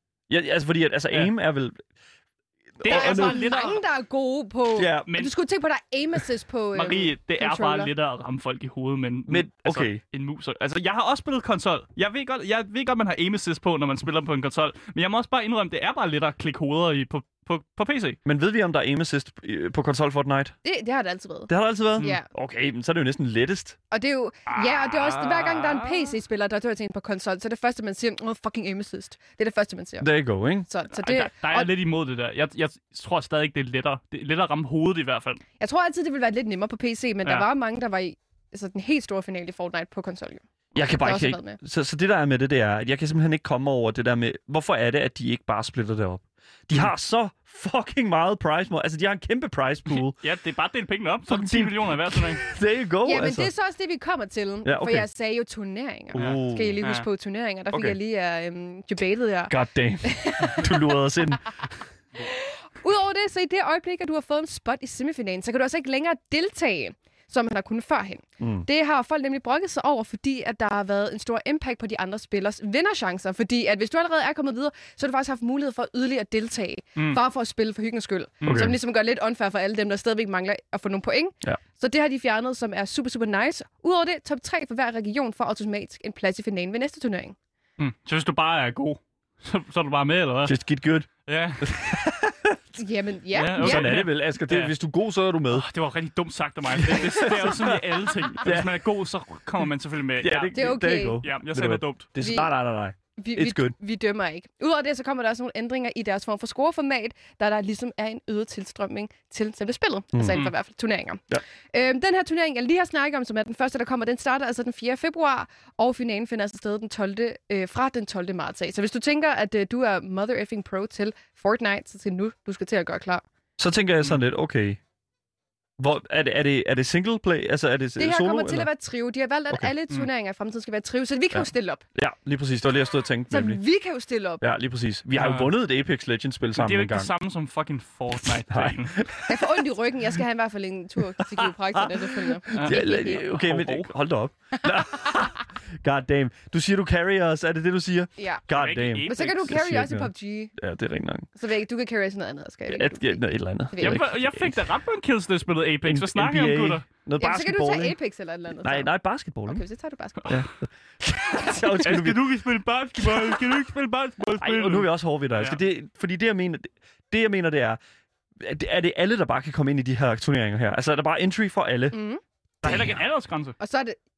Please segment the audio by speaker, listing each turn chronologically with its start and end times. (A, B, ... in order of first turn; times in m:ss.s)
0:00.3-0:01.8 A
0:02.8-0:03.6 A
0:02.8-0:03.8 B
0:02.9-0:07.9 C
0:04.8-0:05.1 A
0:05.0-0:05.3 B
0:06.7-0:18.2 B
0:09.3-0:10.0 A
0:18.2-0:20.5 A
0:20.6-0:22.3 C
0:21.5-0:23.8 A
0:23.9-0:30.1 C
0:24.5-0:26.1 B
0:30.0-0:30.7 A
0:30.7-0:31.7 C
0:31.0-0:35.4 B
0:35.6-0:41.6 C
0:40.7-0:50.2 A
0:49.9-0:52.4 B
0:51.3-0:53.5 A
0:53.0-1:01.0 C
0:54.6-0:55.0 A
0:56.1-0:56.8 A
0:56.2-0:57.1 B
0:57.7-0:58.0 A
0:59.5-1:01.7 A
1:02.2-1:27.4 C
1:08.4-1:08.6 A
1:18.4-1:18.7 B
1:18.4-1:18.7 A
1:27.8-1:30.5 B
1:30.4-1:31.1 A
1:31.2-1:31.8 B
1:31.6-1:32.6 A
1:32.8-1:34.0 C
1:33.3-1:34.7 B
1:33.6-1:35.6 A
1:35.5-1:42.1 B
1:36.7-1:38.8 A
1:40.2-1:43.7 A
1:40.5-1:41.2 C
1:42.2-1:42.5 C
1:43.2-2:03.2 C
1:50.1-1:50.4 A
2:03.6-2:04.8 A
2:05.8-2:08.7 A
2:08.0-2:11.8 C
2:11.3-2:13.6 A
2:13.3-2:14.4 C
2:14.4-2:17.1 A
2:15.2-2:15.5 B
2:16.5-2:19.0 B
2:18.4-2:19.5 A
2:19.3-2:23.2 C
2:21.2-2:31.3 A
2:22.5-2:23.9 B
2:28.2-2:28.4 C
2:28.5-2:29.6 B
2:29.0-2:30.5 C
2:31.4-2:33.2 C
2:32.7-2:34.6 A
2:33.7-2:34.0 C
2:33.8-2:36.8 B
2:35.8-2:38.0 A
2:37.2-2:38.9 C
2:38.6-2:39.6 A
2:39.5-2:40.4 C
2:40.3-2:42.3 A
2:41.8-2:45.6 B
2:43.0-2:43.4 A
2:44.4-2:47.8 A
2:48.4-2:52.0 A
2:51.9-2:52.2 C
2:52.6-2:53.0 A
2:52.6-2:53.6 B
2:53.6-2:54.0 C